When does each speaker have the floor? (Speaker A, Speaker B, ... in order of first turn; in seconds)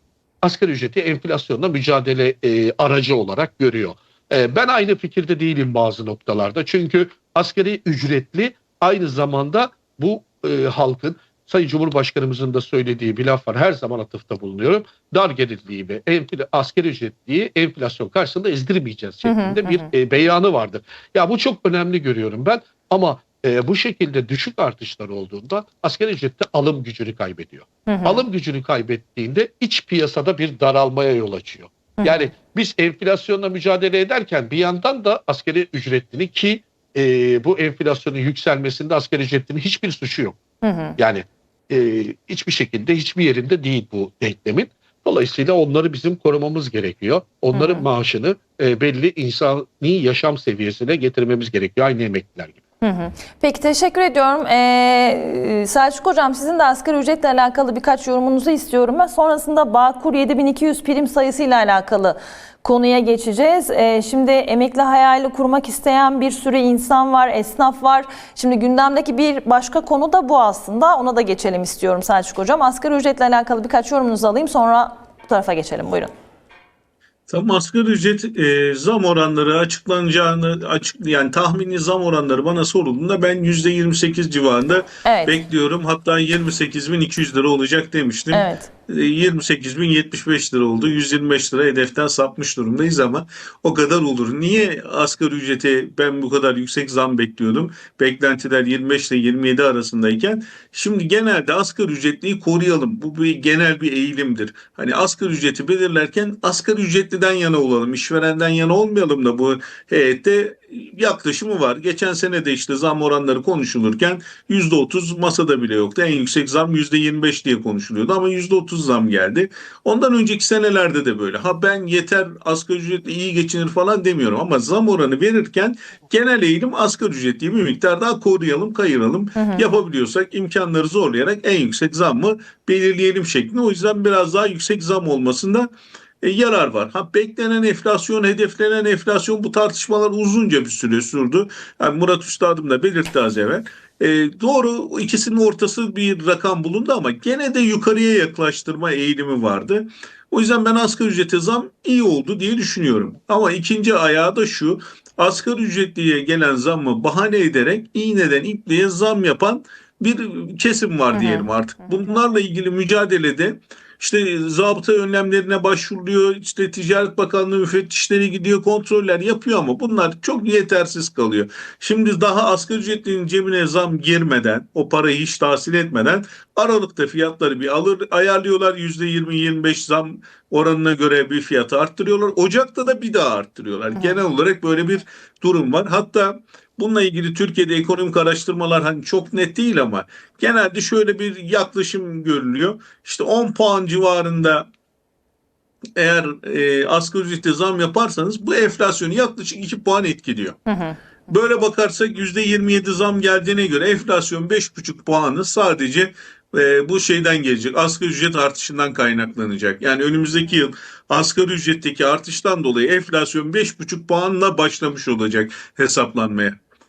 Speaker A: 0.4-40.4, 41.0-52.6
Speaker B: 19.2-19.9, 27.9-28.2, 32.0-32.3, 40.6-41.0, 47.5-47.9, 52.8-76.1, 85.0-85.4, 88.3-88.7, 129.4-129.7, 161.1-162.1, 200.7-201.0
Speaker C: 77.3-135.7, 136.2-194.7, 196.0-200.6, 201.3-216.6